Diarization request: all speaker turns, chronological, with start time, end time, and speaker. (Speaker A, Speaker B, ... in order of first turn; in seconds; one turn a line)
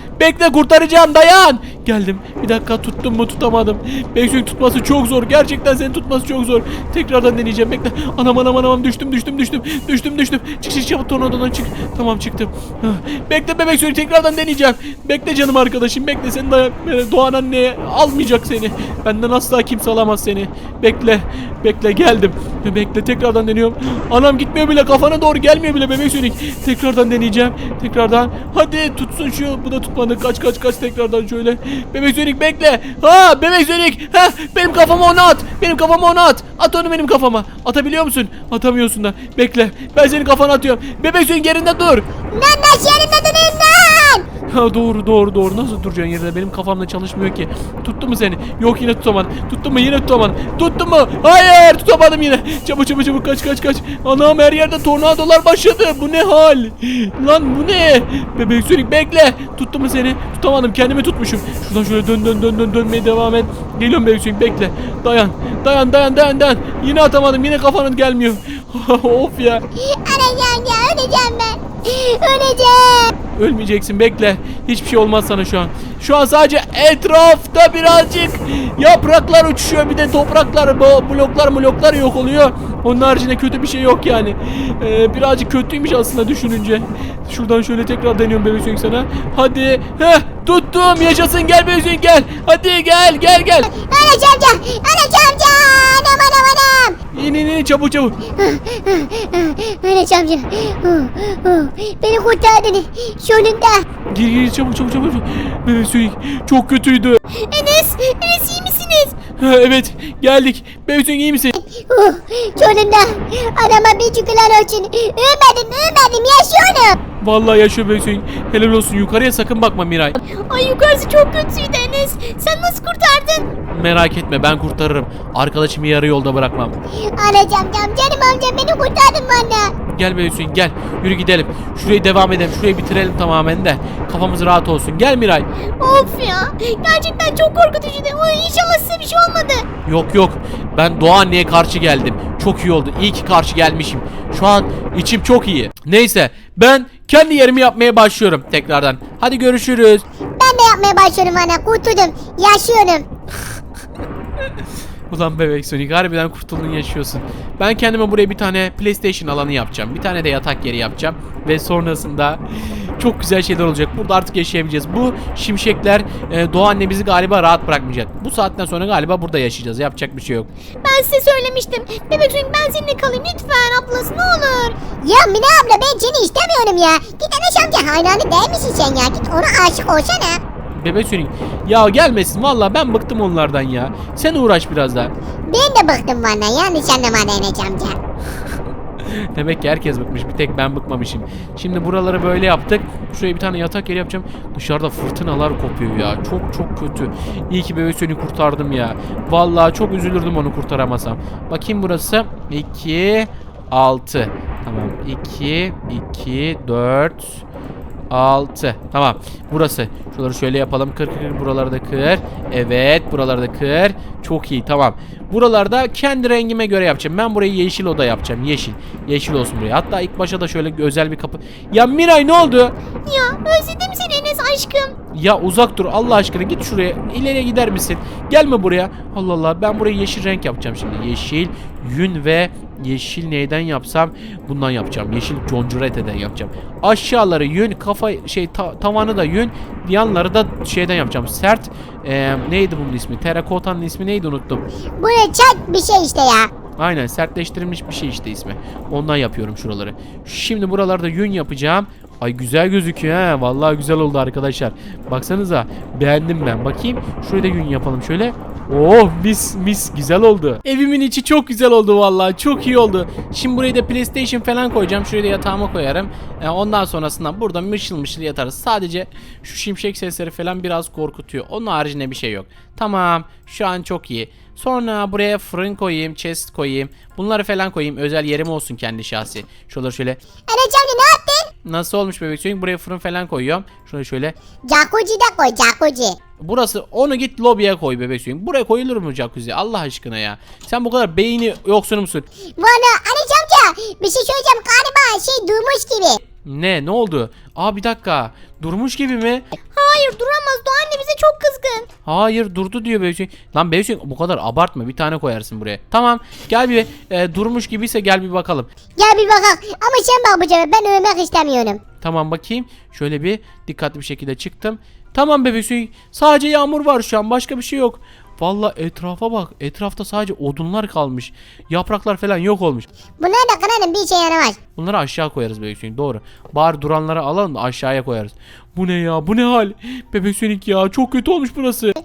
Speaker A: 0.2-42.0
Speaker B: 42.3-44.2
Speaker A: 44.5-69.6
Speaker B: 69.7-73.1
Speaker A: 73.3-93.7
Speaker B: 93.7-97.0
Speaker A: 97.1-98.2
Speaker B: 98.3-103.8
Speaker A: 104.1-107.2
Speaker C: 107.3-109.1
Speaker A: 109.3-111.5
Speaker B: 111.5-117.0
Speaker A: 117.2-120.2
Speaker C: 120.2-123.5
Speaker A: 123.7-126.8
Speaker B: 126.9-129.7
Speaker A: 129.9-135.4
Speaker C: 135.6-139.7
Speaker A: 139.8-150.0
Speaker B: 150.4-153.1
Speaker A: 155.1-170.5
Speaker C: 170.8-174.8
Speaker B: 175.0-180.4
Speaker A: 180.7-185.1
Speaker B: 185.5-188.0
Speaker A: 189.1-207.4
Speaker A: 208.1-222.7
Speaker C: 223.1-224.9
Speaker A: 225.1-244.6
Speaker B: 245.0-246.5
Speaker A: 246.8-280.2
Speaker B: 280.5-281.5
Speaker A: 281.6-284.3
Speaker B: 284.6-286.2
Speaker A: 286.4-292.2
Speaker B: 292.6-296.2
Speaker A: 296.4-299.5
Speaker C: 299.7-301.9
Speaker A: 302.0-308.7
Speaker B: 309.0-311.8
Speaker A: 312.0-322.9
Speaker B: 323.2-324.6
Speaker A: 324.8-331.9